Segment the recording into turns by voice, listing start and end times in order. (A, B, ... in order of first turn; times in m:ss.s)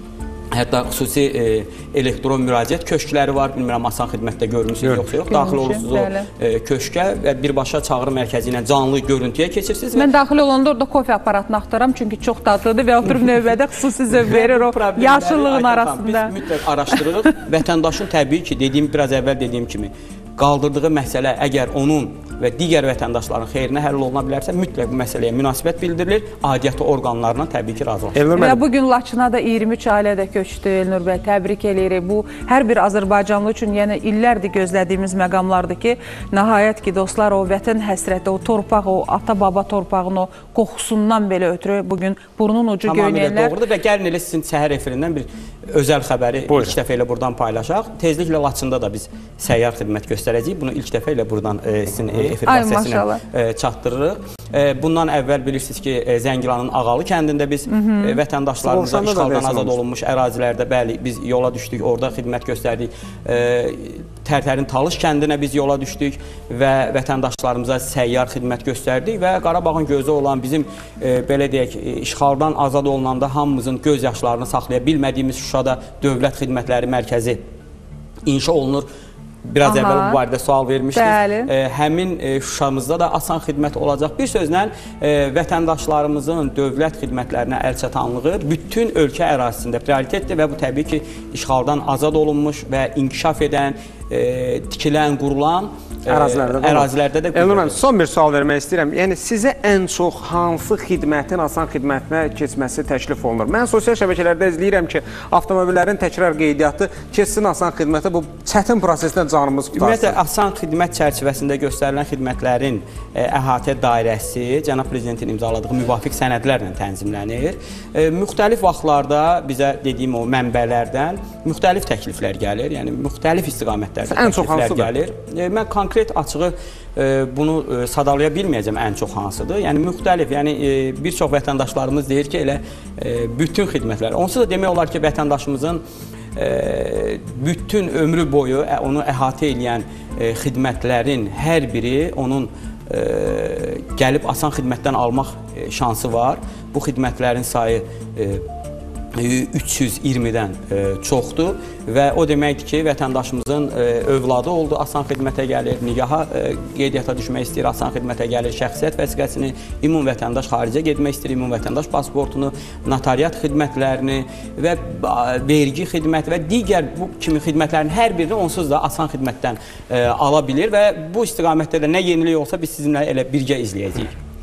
0:00.5-0:10.1 A
0:05.3-0:06.3 B
0:10.0-0:16.3 B
0:14.1-0:28.2 A
0:28.2-0:28.6 C
0:28.3-0:43.5 B
0:42.8-1:17.4 A
0:46.5-0:46.8 C
0:52.4-0:53.2 B
0:57.7-0:58.2 B
0:58.6-0:59.8 C
1:18.3-1:18.9 A
1:19.5-1:37.8 A
1:19.6-1:20.2 B
1:20.9-1:21.5 B
1:36.1-1:50.2 C
1:49.8-2:15.8 A
2:04.0-2:04.9 C
2:16.4-2:28.4 A
2:29.2-2:54.2 A